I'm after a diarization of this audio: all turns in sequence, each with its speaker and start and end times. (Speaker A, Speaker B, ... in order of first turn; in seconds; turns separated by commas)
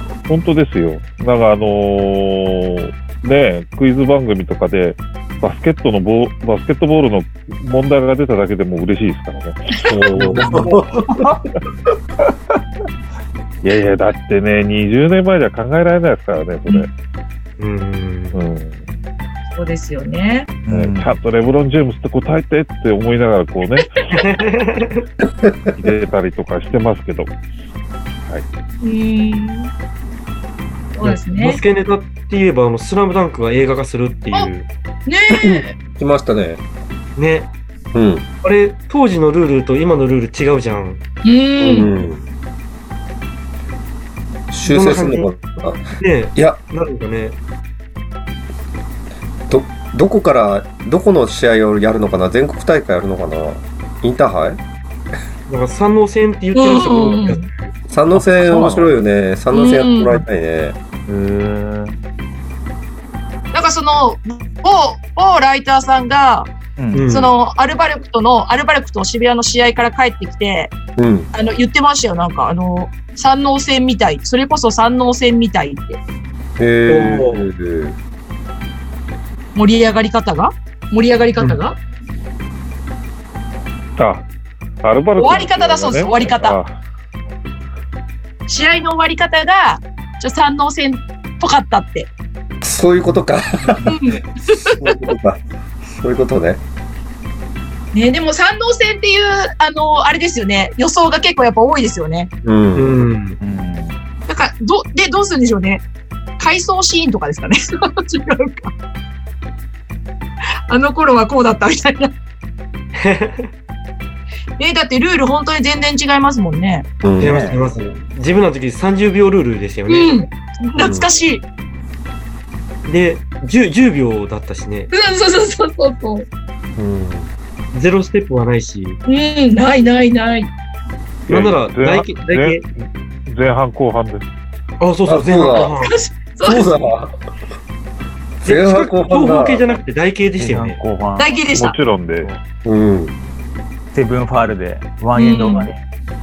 Speaker A: 0.3-9.8, Speaker B: 9.8-11.3, Speaker C: 10.2-10.8, Speaker D: 10.3-11.4, Speaker A: 13.6-16.9, Speaker C: 17.6-18.4, Speaker A: 18.3-18.8, Speaker E: 19.5-20.5, Speaker D: 20.7-21.2, Speaker A: 20.7-24.2, Speaker C: 24.1-25.1, Speaker B: 25.4-25.7, Speaker A: 25.8-27.3, Speaker E: 28.8-29.7, Speaker E: 31.0-31.6, Speaker C: 31.0-34.7, Speaker E: 35.1-35.7, Speaker B: 35.3-36.6, Speaker C: 37.2-37.5, Speaker B: 37.9-38.2, Speaker C: 38.4-41.0, Speaker E: 41.2-41.9, Speaker C: 41.6-41.9, Speaker B: 41.6-42.2, Speaker B: 44.5-45.8, Speaker C: 44.6-45.3, Speaker C: 46.0-47.4, Speaker B: 49.5-54.6, Speaker C: 55.5-57.7, Speaker E: 56.5-57.4, Speaker B: 57.9-60.8, Speaker D: 58.2-58.9, Speaker E: 59.5-60.2, Speaker D: 61.1-62.0, Speaker E: 63.5-66.5, Speaker D: 66.8-67.1, Speaker C: 66.9-67.3, Speaker E: 67.1-70.7, Speaker B: 71.0-71.3, Speaker E: 71.3-76.0, Speaker B: 76.6-78.0, Speaker C: 76.9-77.5, Speaker E: 79.5-81.8, Speaker A: 84.0-84.2, Speaker A: 84.8-86.8, Speaker E: 85.2-86.6, Speaker E: 88.5-92.1, Speaker B: 92.6-94.0, Speaker E: 93.8-95.0, Speaker B: 94.7-96.6, Speaker E: 97.9-102.3, Speaker B: 102.4-103.1, Speaker C: 102.8-103.4, Speaker D: 103.4-104.0, Speaker E: 104.3-105.8, Speaker E: 106.4-108.7, Speaker E: 110.7-112.1, Speaker C: 113.0-113.5, Speaker E: 114.6-116.9, Speaker B: 117.0-117.5, Speaker C: 117.2-120.2, Speaker D: 117.2-117.6, Speaker E: 119.9-121.4, Speaker B: 120.8-121.1, Speaker C: 122.9-124.9, Speaker E: 124.9-126.3, Speaker B: 126.8-127.3, Speaker C: 127.7-129.0, Speaker E: 129.1-130.5, Speaker A: 131.3-132.7, Speaker C: 131.3-132.6, Speaker A: 133.3-134.3, Speaker C: 134.8-135.9, Speaker B: 135.1-135.7, Speaker E: 135.8-136.7, Speaker B: 136.4-137.2, Speaker B: 138.4-139.7, Speaker C: 138.4-140.8, Speaker D: 140.4-141.3, Speaker E: 141.2-141.8, Speaker A: 141.5-142.4, Speaker B: 142.6-143.1, Speaker D: 143.9-145.8, Speaker E: 145.2-145.7